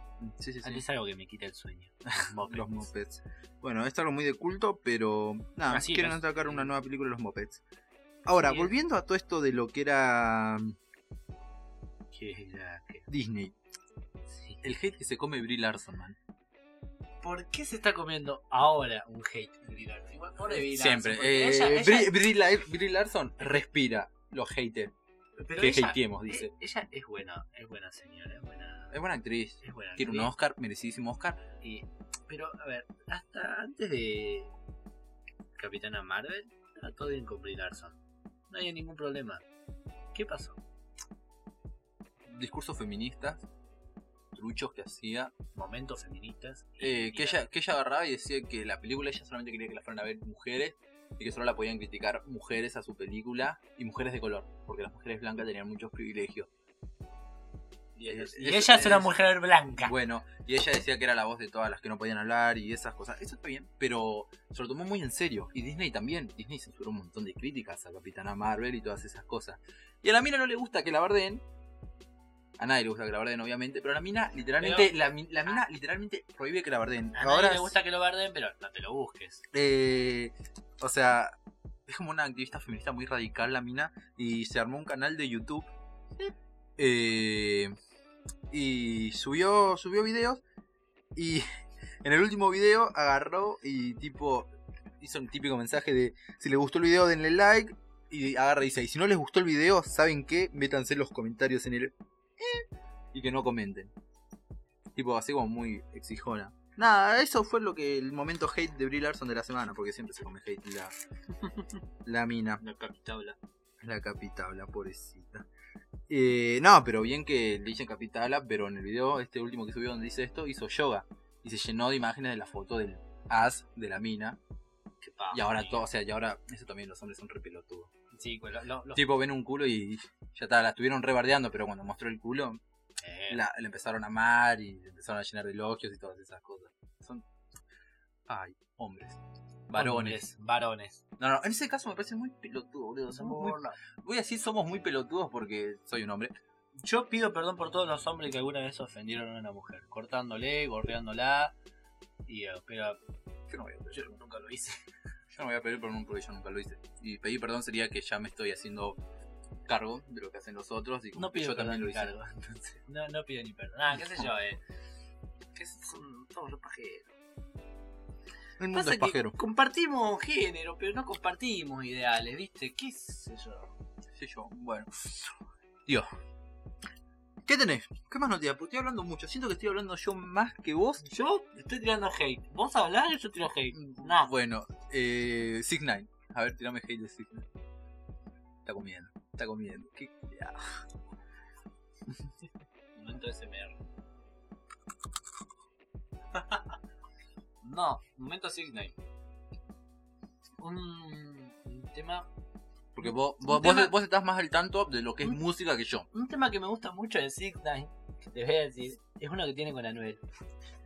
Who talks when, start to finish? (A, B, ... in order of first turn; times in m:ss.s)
0:00.2-0:00.8 A
0:00.6-0:02.9 B
0:02.2-0:07.6 A
0:05.7-0:06.7 B
0:08.3-0:10.8 A
0:08.4-0:08.7 B
0:12.1-0:13.1 B
0:13.1-0:13.6 A
0:14.3-0:14.7 B
0:14.6-0:16.2 A
0:17.2-0:22.2 B
0:20.5-0:24.9 A
0:25.4-0:29.0 B
0:25.6-0:26.5 A
0:28.9-0:31.4 A
0:29.6-0:30.3 B
0:31.6-0:34.5 B
0:35.6-0:39.4 B
0:40.1-0:40.6 B
0:42.3-0:43.5 A
0:44.3-0:45.3 A
0:45.6-0:47.4 B
0:46.8-0:56.5 A
0:58.0-1:00.0 B
0:58.1-0:59.2 A
0:59.8-1:11.4 A
1:12.6-1:17.8 A
1:14.6-1:14.9 B
1:17.2-1:19.4 B
1:19.5-1:21.3 A
1:21.9-1:25.7 A
1:26.8-1:27.7 A
1:28.5-1:30.4 A
1:31.2-1:31.4 A
1:32.0-1:34.5 A
1:35.0-1:43.9 A
1:45.0-1:50.9 A
1:51.5-1:51.8 B
1:52.0-1:52.6 A
1:52.6-1:53.4 B
1:53.8-1:55.5 A
1:56.1-2:04.4 A
2:05.0-2:05.8 B
2:05.3-2:07.9 A
2:08.1-2:09.0 B
2:09.0-2:12.6 A
2:13.0-2:13.4 B
2:13.3-2:17.2 A
2:18.3-2:20.3 A
2:19.8-2:21.0 B
2:21.2-2:26.3 A
2:23.1-2:23.8 B
2:26.8-2:31.6 B
2:32.3-2:33.0 B
2:33.5-2:34.1 A
2:33.9-2:34.8 B
2:35.3-2:39.0 A
2:39.7-2:42.1 A
2:41.2-2:44.6 B
2:44.0-2:44.3 A
2:45.6-2:47.1 B
2:48.6-2:49.4 A
2:48.7-2:53.7 B
2:54.2-2:54.9 A
2:57.5-3:01.0 A
3:01.0-3:04.3 B
3:03.7-3:07.5 A
3:08.6-3:10.6 A
3:13.0-3:13.8 B
3:16.4-3:16.6 B
3:17.6-3:19.0 B
3:20.6-3:22.3 B
3:23.0-3:26.1 A
3:23.0-3:23.9 B
3:26.1-3:30.2 B